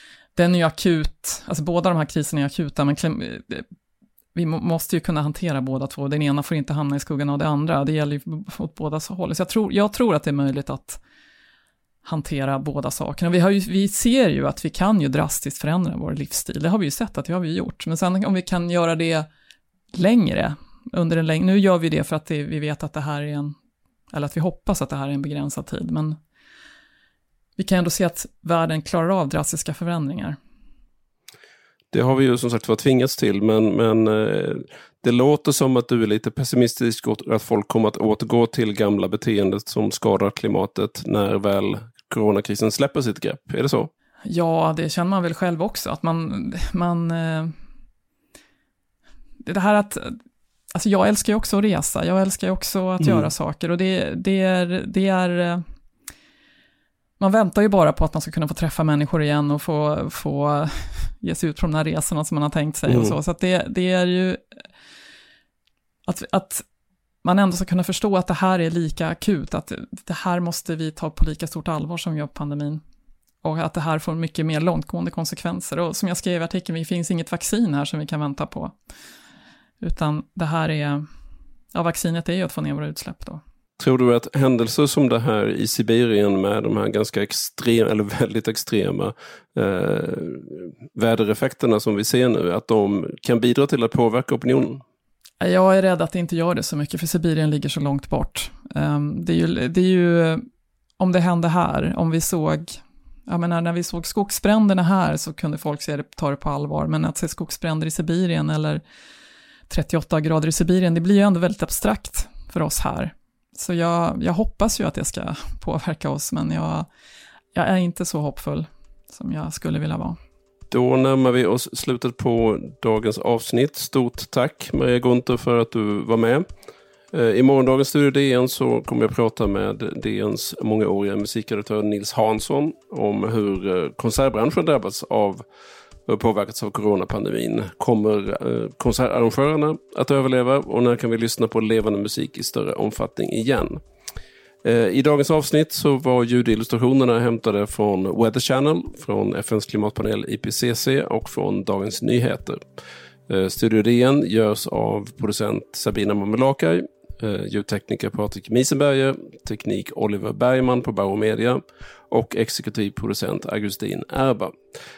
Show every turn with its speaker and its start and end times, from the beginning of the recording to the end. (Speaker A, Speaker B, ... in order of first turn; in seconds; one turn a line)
Speaker A: 0.3-3.6
Speaker A: 4.3-11.0
Speaker A: 12.0-19.3
Speaker A: 19.9-23.5
Speaker A: 24.1-26.2
Speaker A: 27.6-30.4
Speaker B: 31.9-43.9
Speaker A: 44.2-47.5
Speaker A: 49.4-50.2
Speaker A: 50.7-55.6
Speaker B: 53.0-53.3
Speaker A: 57.2-64.4
Speaker B: 62.9-63.2
Speaker A: 66.0-66.6
Speaker A: 67.2-72.8
Speaker A: 73.4-78.7
Speaker A: 79.8-81.0
Speaker A: 81.7-83.4
Speaker B: 83.8-94.8
Speaker A: 95.4-100.4
Speaker A: 101.0-108.8
Speaker A: 109.7-116.9
Speaker A: 117.5-120.2
Speaker B: 120.7-126.4
Speaker B: 127.1-135.4
Speaker B: 136.1-143.8
Speaker B: 144.6-152.6
Speaker B: 153.3-164.5